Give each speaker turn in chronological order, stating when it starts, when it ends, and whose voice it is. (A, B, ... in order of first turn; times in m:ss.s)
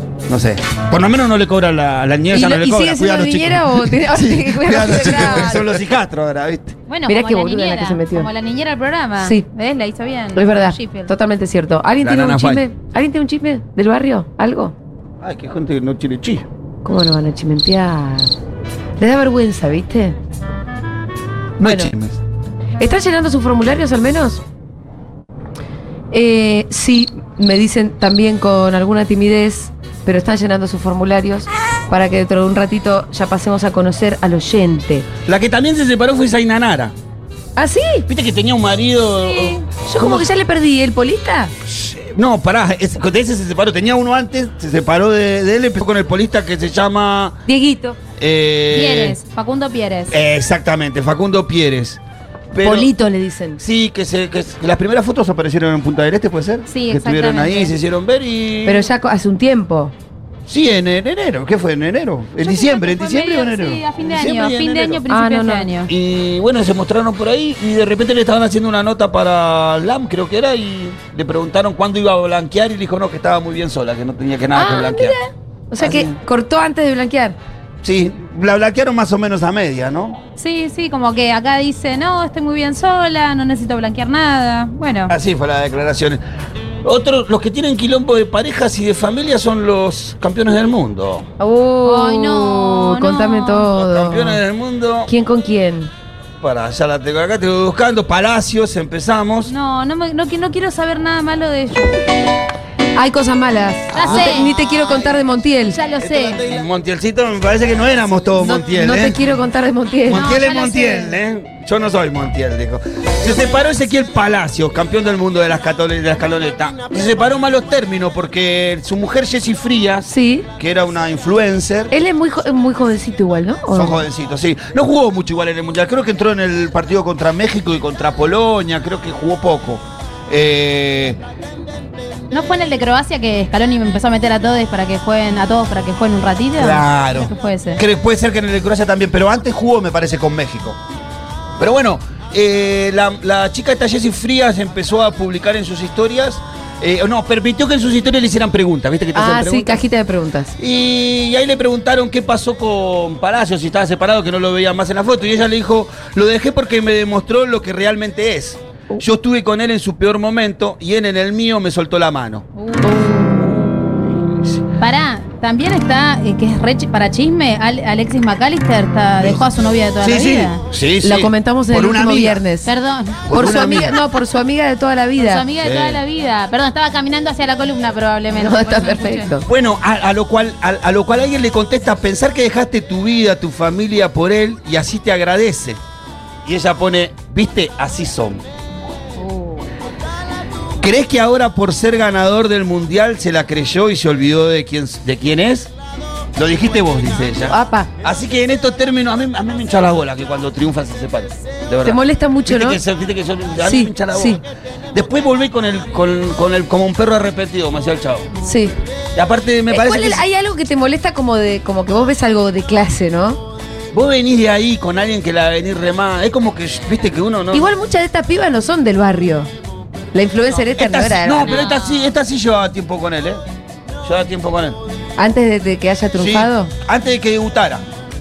0:00.3-0:06.8 A
0:02.3-0:05.8 B
0:06.9-0:11.1 C
0:07.1-0:08.3 B
0:10.4-0:14.8 B
0:12.0-0:12.7 A
0:15.2-0:16.5 A
0:16.8-0:18.3 B
0:19.0-0:20.2 B
0:21.6-0:22.2 A
0:21.6-0:21.9 B
0:22.8-0:24.4 B
0:26.1-0:35.1 B
0:35.3-0:36.9 A
0:37.6-0:38.1 B
0:38.1-0:40.3 A
0:39.2-0:39.6 C
0:39.8-0:41.5 B
0:41.6-0:47.4 A
0:47.5-0:48.0 B
0:48.2-0:49.2 A
0:48.7-0:50.1 C
0:50.1-0:52.0 A
0:52.5-0:52.9 A
0:52.6-0:53.6 B
0:53.6-0:58.9 A
0:56.7-0:57.7 C
0:58.7-0:59.9 B
1:00.5-1:05.0 A
1:02.4-1:05.9 C
1:05.1-1:05.7 B
1:05.9-1:15.2 A
1:14.5-1:17.4 B
1:15.8-1:16.2 A
1:17.8-1:20.2 A
1:20.4-1:25.2 C
1:25.1-1:26.2 A
1:26.8-1:31.3 A
1:31.4-1:34.4 B
1:31.8-1:33.7 C
1:33.7-1:35.1 A
1:35.1-1:35.9 B
1:36.4-1:39.5 A
1:39.5-1:42.1 C
1:43.0-1:45.8 B
1:43.9-1:44.5 C
1:44.0-1:44.6 A
1:45.6-1:46.4 C
1:46.0-1:49.2 A
1:48.4-1:50.4 B
1:50.1-2:01.9 A
1:50.1-1:51.2 C
2:00.1-2:00.5 B
2:01.9-2:04.0 B
2:03.7-2:11.2 A
2:12.3-2:17.8 C
2:16.6-2:20.8 A
2:21.6-2:29.8 A
2:29.2-2:30.6 B
2:30.6-2:42.5 A
2:42.6-2:43.0 C
2:42.8-2:43.5 B
2:43.2-2:44.6 A
2:44.8-2:50.6 C
2:50.0-2:52.4 A
2:51.0-2:52.7 B
2:52.6-2:53.2 C
2:53.3-2:54.0 A
2:53.3-2:55.5 B
2:55.2-2:59.3 C
2:55.6-2:56.0 A
2:58.3-2:59.5 B
2:59.5-3:05.8 A
3:06.4-3:08.4 A
3:09.2-3:09.6 C
3:10.8-3:15.7 A
3:16.4-3:28.3 A
3:17.5-3:17.9 B
3:21.8-3:22.8 B
3:23.6-3:24.4 B
3:28.4-3:28.8 B
3:29.2-3:30.2 A
3:29.7-3:33.4 B
3:33.9-3:37.7 A
3:37.5-3:39.5 B
3:40.1-3:41.7 B
3:40.8-3:43.4 A
3:41.5-3:42.0 C
3:44.0-3:44.8 A
3:45.2-3:46.7 B
3:46.2-3:47.8 A